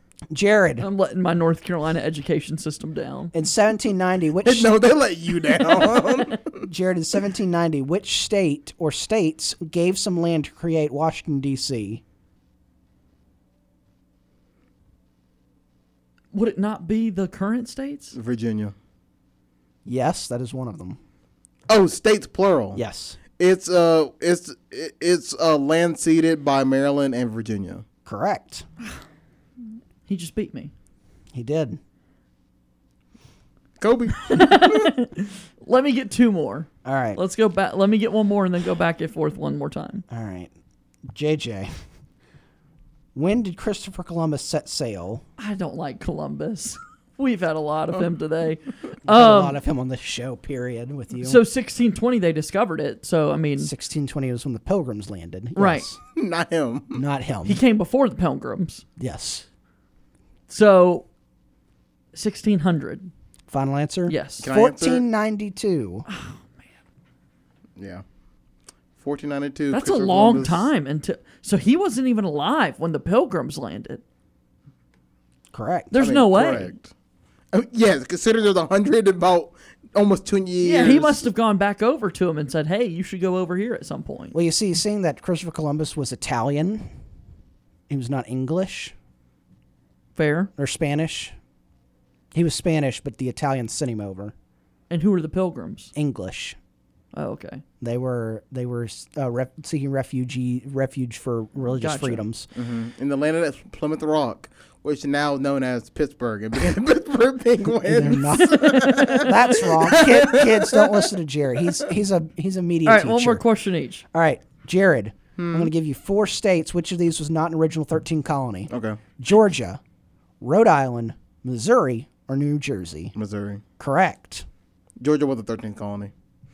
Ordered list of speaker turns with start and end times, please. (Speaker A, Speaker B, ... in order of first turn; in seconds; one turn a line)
Speaker A: 0.3-0.9
Speaker B: 0.8-3.3
Speaker A: 3.3-4.7
Speaker C: 4.4-6.6
Speaker A: 6.6-12.0
Speaker B: 16.3-18.1
Speaker C: 18.1-18.7
Speaker A: 19.9-21.0
Speaker C: 21.7-22.8
Speaker A: 22.7-23.2
Speaker C: 23.4-27.8
Speaker A: 28.1-28.6
Speaker B: 30.1-30.7
Speaker A: 31.3-31.8
Speaker C: 33.8-34.9
Speaker B: 34.2-40.0
Speaker A: 36.8-37.2
Speaker A: 40.1-40.5
Speaker A: 41.1-41.7
Speaker A: 43.1-45.2
Speaker B: 45.4-49.6
Speaker A: 49.0-51.4
Speaker B: 51.2-53.7
Speaker A: 53.6-56.0
Speaker B: 55.5-55.9
Speaker C: 56.1-57.0
Speaker A: 56.9-57.6
Speaker B: 57.4-58.8
Speaker A: 59.0-59.5
Speaker B: 60.5-61.0
Speaker B: 62.1-63.1
Speaker A: 63.5-66.0
Speaker B: 64.1-64.5
Speaker C: 64.4-65.0
Speaker B: 66.1-66.5
Speaker C: 67.8-68.0
Speaker C: 69.0-70.7
Speaker B: 69.7-74.0
Speaker A: 75.5-75.9
Speaker B: 75.9-76.7
Speaker C: 76.0-76.9
Speaker C: 77.5-81.2
Speaker B: 80.6-84.3
Speaker A: 84.3-86.9
Speaker A: 87.9-88.9
Speaker B: 90.1-90.5
Speaker A: 90.6-91.3
Speaker A: 92.3-94.3
Speaker B: 94.9-95.9
Speaker A: 95.9-96.6
Speaker B: 97.1-97.6
Speaker A: 97.8-102.5
Speaker B: 101.8-102.3
Speaker C: 102.5-111.0
Speaker A: 107.8-113.4
Speaker B: 108.7-109.3
Speaker B: 112.8-114.0
Speaker A: 114.1-119.8
Speaker C: 115.4-115.7
Speaker C: 118.7-119.0
Speaker A: 120.4-123.1
Speaker C: 123.1-123.6
Speaker A: 123.8-124.5
Speaker C: 125.0-126.1